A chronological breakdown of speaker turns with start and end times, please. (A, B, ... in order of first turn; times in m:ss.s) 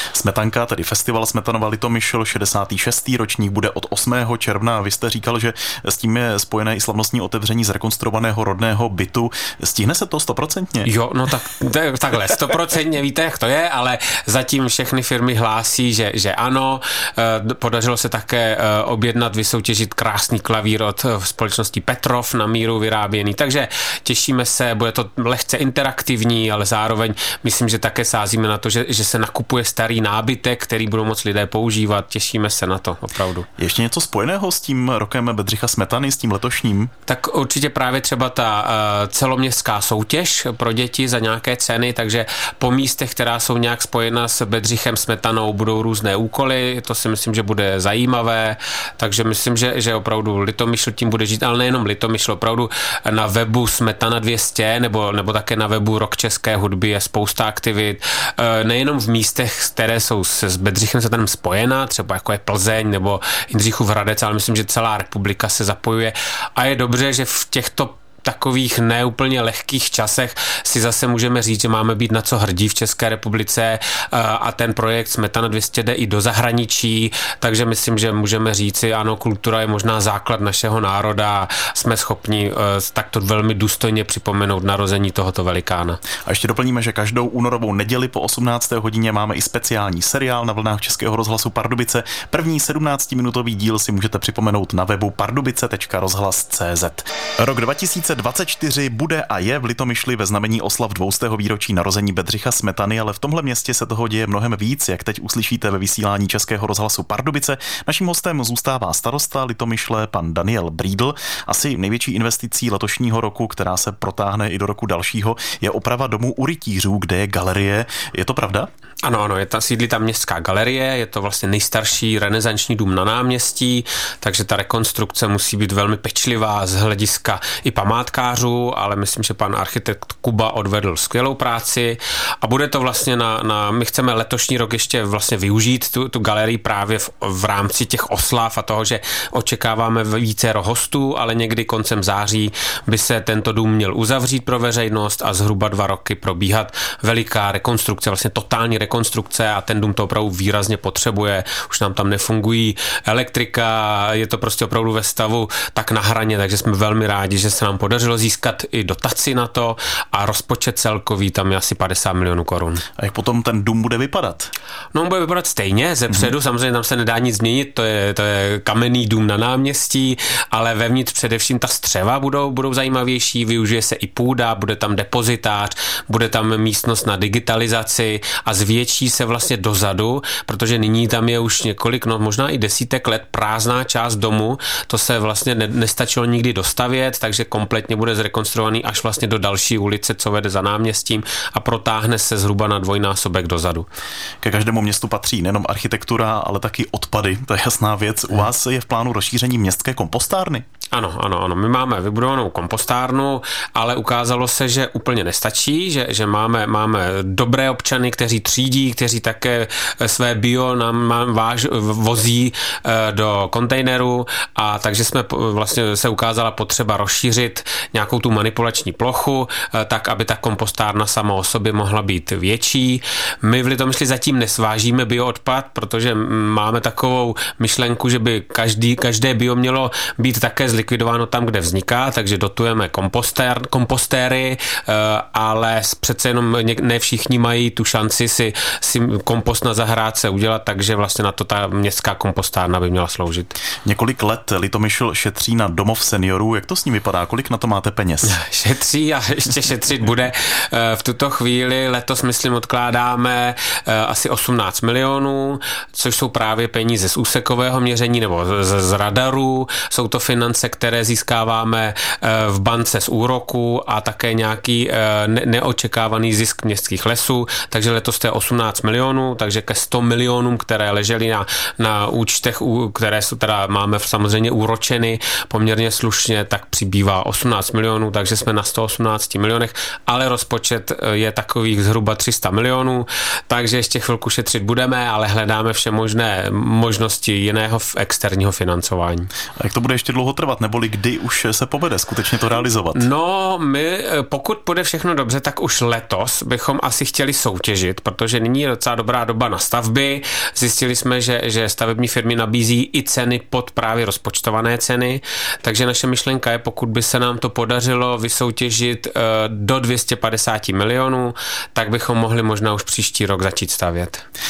0:00.1-0:10.9 A
0:10.8-0:33.5 B
0:33.6-0:36.9 A
0:37.1-1:26.0 B
1:26.2-1:58.7 A
1:59.0-2:42.8 B
2:43.0-2:44.5 A
2:44.9-3:13.9 B
3:14.4-3:20.6 A
3:20.9-4:03.5 B
4:03.8-4:08.4 A
4:08.3-4:49.3 B
4:49.6-4:53.1 A
4:52.9-5:14.2 B